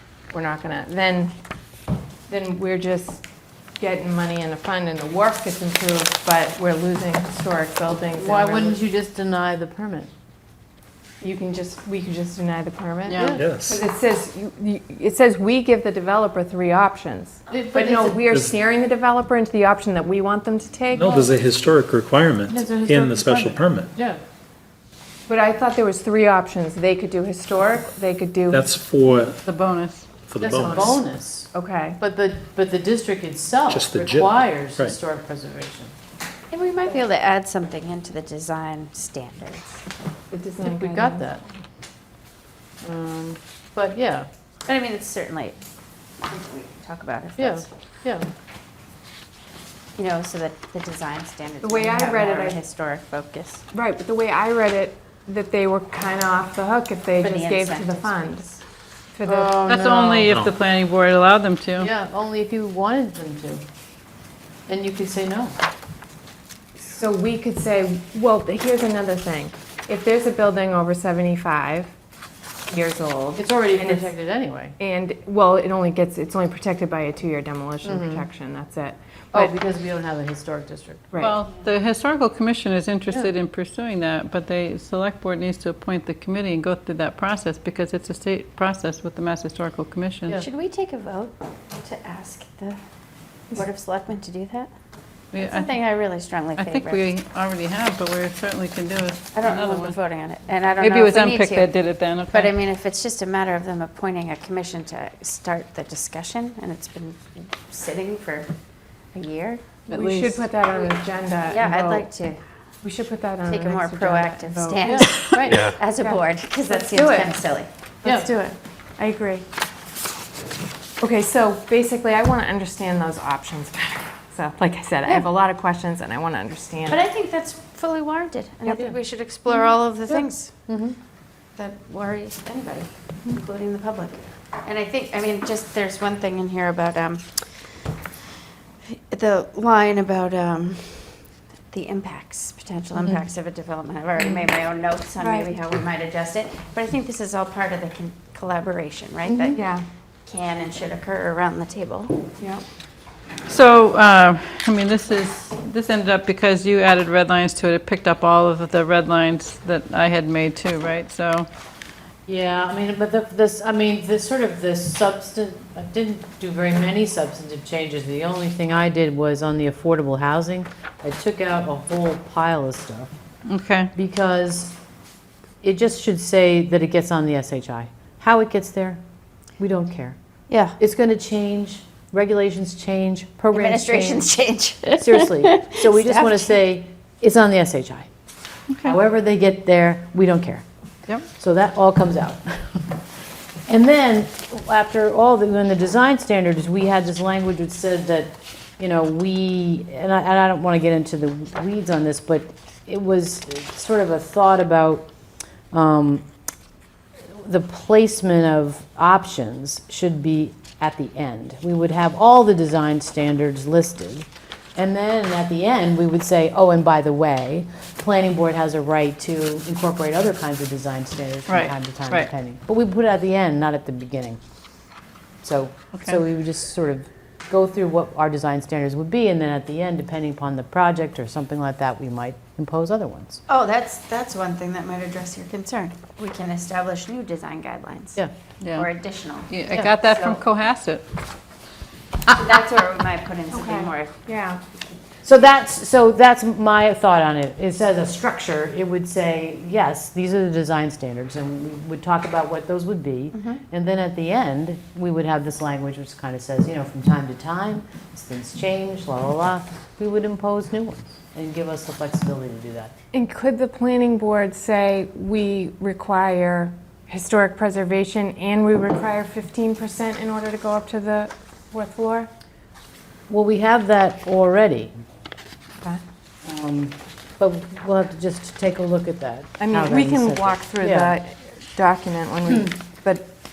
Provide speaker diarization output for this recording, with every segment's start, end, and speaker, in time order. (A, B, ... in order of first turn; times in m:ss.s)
0:00.3-0:01.3 A
0:02.3-0:03.2 A
0:03.8-0:08.8 A
0:08.2-0:10.1 B
0:11.2-0:21.2 A
0:13.1-0:13.4 C
0:13.1-0:13.4 B
0:13.4-0:13.8 D
0:17.5-0:18.3 B
0:18.3-0:18.5 D
0:20.9-0:23.9 D
0:21.0-0:21.3 B
0:22.5-0:24.2 B
0:25.3-0:28.7 A
0:28.5-0:29.5 D
0:29.4-0:30.1 C
0:30.2-0:31.0 D
0:30.4-0:35.9 B
0:31.5-0:32.0 A
0:33.7-0:35.0 D
0:36.5-0:39.8 E
0:40.3-0:41.2 A
0:40.6-0:41.4 B
0:42.8-0:44.3 B
0:44.7-0:45.6 E
0:46.2-0:47.7 E
0:47.4-0:48.3 B
0:50.0-0:53.6 E
0:51.6-0:52.6 A
0:53.7-0:58.4 A
0:57.2-0:58.6 E
0:59.1-0:59.6 A
0:59.2-1:00.3 B
0:59.7-1:01.9 C
1:00.3-1:00.6 D
1:01.8-1:03.6 B
1:04.7-1:05.6 B
1:06.8-1:11.9 A
1:12.7-1:14.1 A
1:13.4-1:14.8 B
1:14.8-1:19.5 A
1:17.8-1:18.3 B
1:19.3-1:21.3 B
1:21.2-1:30.4 C
1:30.3-1:32.8 E
1:33.5-1:34.7 E
1:35.3-1:35.9 C
1:35.3-1:37.0 E
1:36.6-1:40.0 C
1:39.3-1:41.7 E
1:40.8-1:42.5 C
1:42.3-1:48.5 E
1:49.1-1:49.6 E
1:49.9-1:50.4 C
1:49.9-1:52.1 A
1:51.4-1:52.4 E
1:52.8-1:57.3 A
1:53.4-1:59.4 E
1:54.8-1:55.1 B
1:55.5-1:55.8 D
1:58.0-1:58.3 B
2:01.0-2:07.0 A
2:06.9-2:10.6 E
2:08.7-2:09.0 B
2:10.1-2:11.0 B
2:11.6-2:17.9 E
2:18.9-2:29.7 E
2:25.2-2:25.5 A
2:29.3-2:29.6 B
2:29.5-2:29.8 A
2:30.2-2:32.2 E
2:33.5-2:41.5 C
2:42.3-2:53.1 B
2:53.5-2:53.9 C
2:54.0-2:54.7 B
2:55.6-2:59.0 B
2:59.6-3:00.2 B
3:00.5-3:00.8 E
3:00.8-3:04.3 B
3:03.5-3:06.6 E
3:05.0-3:08.1 B
3:08.8-3:10.6 B
3:11.3-3:12.9 B
3:13.7-3:25.1 B
3:25.7-3:26.2 B
3:27.3-3:44.4 B
3:41.5-3:42.3 C
3:45.4-3:53.4 B
3:53.5-3:58.2 E
3:58.6-3:58.9 C
3:58.7-4:00.4 E
3:59.5-4:01.0 C
4:02.3-4:04.1 E
4:03.5-4:04.6 A
4:05.2-4:22.9 B
4:13.3-4:13.6 E
4:23.1-4:32.3 A
4:33.3-4:34.9 B
4:36.4-4:41.1 B
4:39.6-4:43.3 A